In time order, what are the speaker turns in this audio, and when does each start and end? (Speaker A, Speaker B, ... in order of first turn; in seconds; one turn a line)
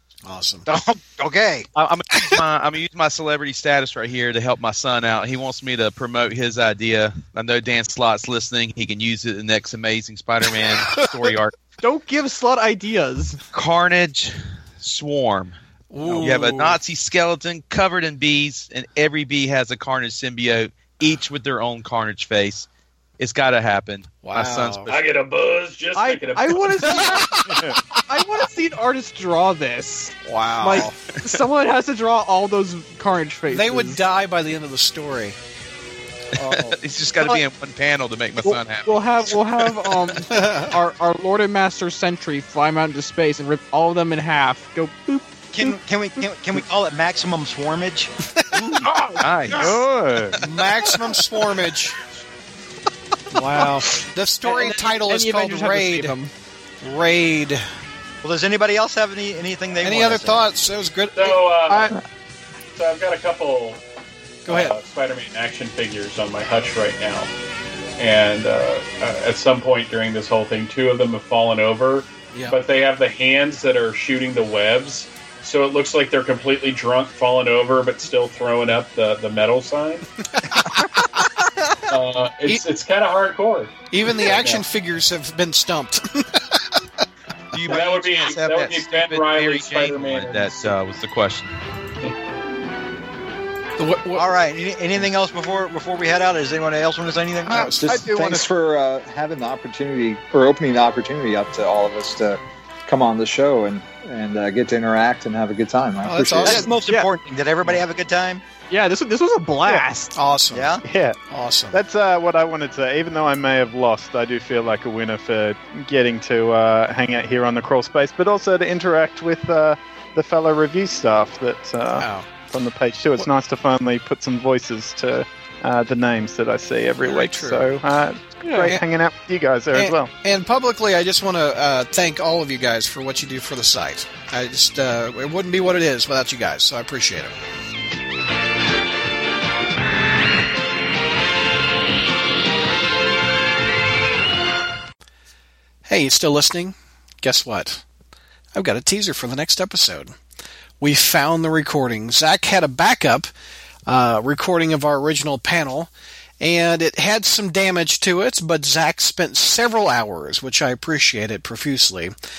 Speaker A: 0.2-0.7
Speaker B: 0.7-1.7
Speaker C: 1.7-11.6
Speaker A: 10.9-11.3
Speaker D: 11.8-13.4
Speaker C: 13.5-22.7
Speaker A: 15.9-16.8
Speaker C: 23.2-24.9
Speaker A: 24.2-24.9
Speaker E: 24.9-26.6
Speaker D: 25.9-34.0
Speaker A: 26.9-27.6
Speaker F: 27.5-27.8
Speaker A: 30.2-30.9
Speaker A: 33.5-35.4
Speaker C: 36.4-40.2
Speaker B: 36.4-37.4
Speaker D: 38.4-45.6
Speaker A: 40.3-40.8
Speaker B: 45.5-48.9
Speaker D: 48.9-49.2
Speaker C: 49.2-49.7
Speaker F: 49.5-50.4
Speaker A: 50.4-52.0
Speaker A: 53.3-56.1
Speaker D: 54.4-56.3
Speaker A: 56.8-57.6
Speaker B: 58.2-60.4
Speaker A: 59.8-62.0
Speaker E: 61.1-61.9
Speaker E: 62.8-63.8
Speaker A: 64.4-64.8
Speaker E: 64.5-67.3
Speaker E: 68.0-80.0
Speaker A: 72.3-72.6
Speaker A: 80.5-80.8
Speaker E: 81.9-84.6
Speaker A: 83.9-86.8
Speaker C: 87.5-91.5
Speaker E: 87.6-90.8
Speaker A: 93.8-94.3
Speaker B: 94.1-97.7
Speaker A: 97.5-98.0
Speaker F: 97.6-98.5
Speaker G: 97.6-106.7
Speaker A: 106.0-106.7
Speaker B: 106.4-108.4
Speaker D: 108.7-110.1
Speaker A: 110.1-110.8
Speaker B: 110.5-110.8
Speaker F: 110.8-111.2
Speaker A: 111.3-111.8
Speaker F: 111.7-130.1
Speaker A: 122.0-122.3
Speaker A: 127.0-127.7
Speaker D: 128.4-128.7
Speaker A: 129.7-137.3
Speaker A: 145.8-147.8
Speaker A: 148.5-150.1
Speaker A: 150.8-153.3
Speaker A: 153.9-162.1